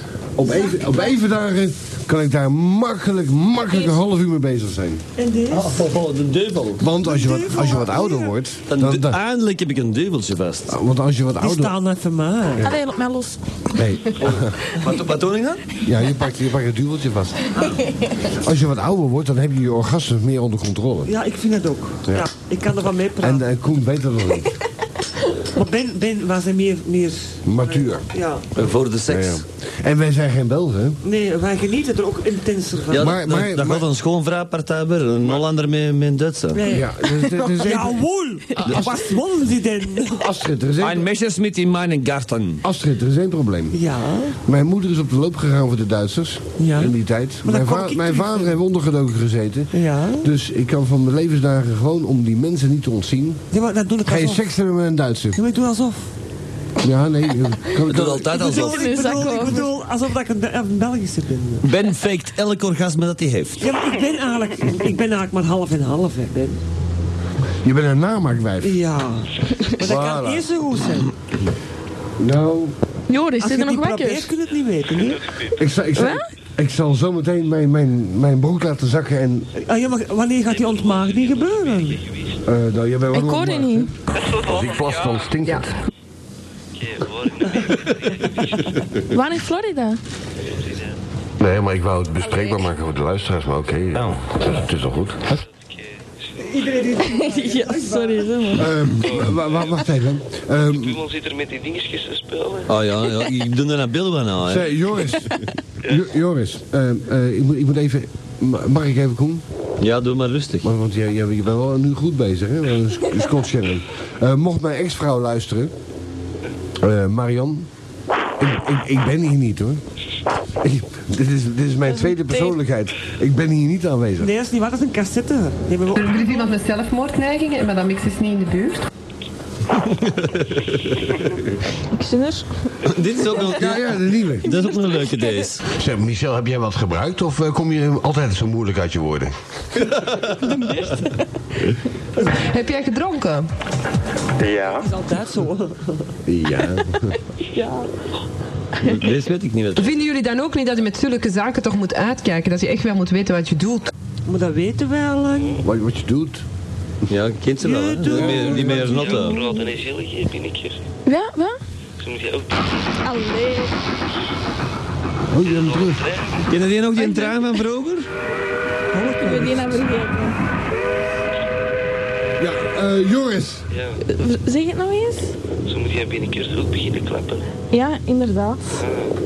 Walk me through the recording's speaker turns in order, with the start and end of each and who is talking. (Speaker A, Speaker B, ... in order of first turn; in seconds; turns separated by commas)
Speaker A: 0.4-5.0, Speaker B: 0.4-1.1, Speaker B: 3.7-4.0, Speaker C: 5.2-5.9, Speaker D: 5.5-6.8, Speaker A: 6.8-9.2, Speaker C: 7.0-8.3, Speaker D: 8.7-10.7, Speaker A: 10.7-11.7, Speaker C: 11.4-12.7, Speaker B: 12.6-13.4, Speaker A: 13.7-14.6, Speaker D: 14.2-15.6, Speaker A: 15.8-17.5, Speaker A: 18.3-21.1, Speaker C: 21.1-23.4, Speaker A: 23.2-24.5, Speaker C: 25.5-28.4, Speaker A: 27.4-28.1, Speaker D: 28.6-29.4, Speaker A: 29.1-31.0, Speaker C: 31.0-33.1, Speaker A: 32.9-33.9, Speaker D: 32.9-36.6, Speaker C: 36.5-40.3, Speaker A: 36.6-39.0, Speaker A: 40.1-41.1, Speaker D: 40.8-42.6, Speaker A: 42.6-43.8, Speaker C: 43.7-44.4, Speaker A: 44.4-53.4, Speaker C: 46.6-48.5, Speaker C: 49.7-50.3, Speaker C: 53.5-54.4, Speaker A: 54.0-55.4, Speaker C: 55.3-56.1, Speaker A: 56.8-58.4, Speaker D: 57.9-59.0, Speaker C: 58.3-61.6, Speaker B: 58.4-59.7, Speaker D: 61.6-63.7, Speaker C: 63.6-66.6, Speaker A: 67.6-68.8, Speaker C: 68.6-71.1, Speaker A: 69.8-70.5, Speaker A: 72.2-72.8, Speaker B: 73.1-74.3, Speaker C: 73.4-75.3, Speaker E: 75.0-75.5, Speaker A: 75.5-79.5, Speaker B: 76.0-76.2, Speaker C: 79.6-82.0, Speaker E: 80.5-82.4, Speaker A: 82.4-83.9, Speaker B: 83.1-83.9, Speaker E: 84.1-85.3, Speaker F: 84.4-85.6, Speaker E: 86.7-88.4, Speaker B: 89.1-90.0, Speaker E: 90.5-90.9, Speaker F: 91.4-94.3, Speaker A: 91.6-92.4, Speaker A: 94.5-95.2, Speaker E: 95.6-96.3, Speaker C: 96.4-98.5, Speaker B: 97.0-98.7, Speaker A: 98.5-101.0, Speaker E: 99.0-99.8, Speaker E: 100.6-102.7, Speaker D: 102.7-104.7, Speaker A: 104.4-109.4, Speaker D: 109.8-110.7, Speaker A: 110.6-115.7, Speaker A: 116.8-117.7, Speaker A: 118.4-119.8, Speaker A: 120.6-124.3, Speaker C: 124.2-126.5, Speaker G: 125.9-128.8, Speaker D: 129.9-131.0, Speaker B: 131.9-132.4, Speaker D: 132.9-135.6, Speaker A: 133.4-134.5, Speaker B: 134.5-135.4, Speaker A: 135.8-136.1, Speaker F: 138.0-139.2, Speaker B: 140.2-141.2, Speaker G: 142.3-143.5, Speaker C: 144.5-146.1, Speaker A: 146.2-147.1, Speaker B: 147.4-147.9, Speaker D: 148.8-149.9, Speaker G: 149.8-153.9, Speaker C: 154.2-155.6, Speaker A: 155.6-156.4, Speaker D: 157.1-159.4, Speaker C: 157.6-159.2, Speaker A: 158.0-159.1, Speaker E: 158.9-160.8, Speaker B: 161.1-161.6, Speaker E: 162.0-162.9, Speaker B: 163.0-163.7, Speaker A: 165.3-166.1, Speaker E: 165.4-166.3, Speaker D: 166.5-168.1, Speaker B: 167.0-167.5, Speaker C: 168.9-169.9, Speaker B: 169.0-170.3, Speaker A: 172.4-173.6, Speaker E: 173.7-174.0, Speaker B: 174.0-175.3, Speaker E: 175.7-177.4, Speaker B: 177.7-178.8, Speaker E: 178.8-179.1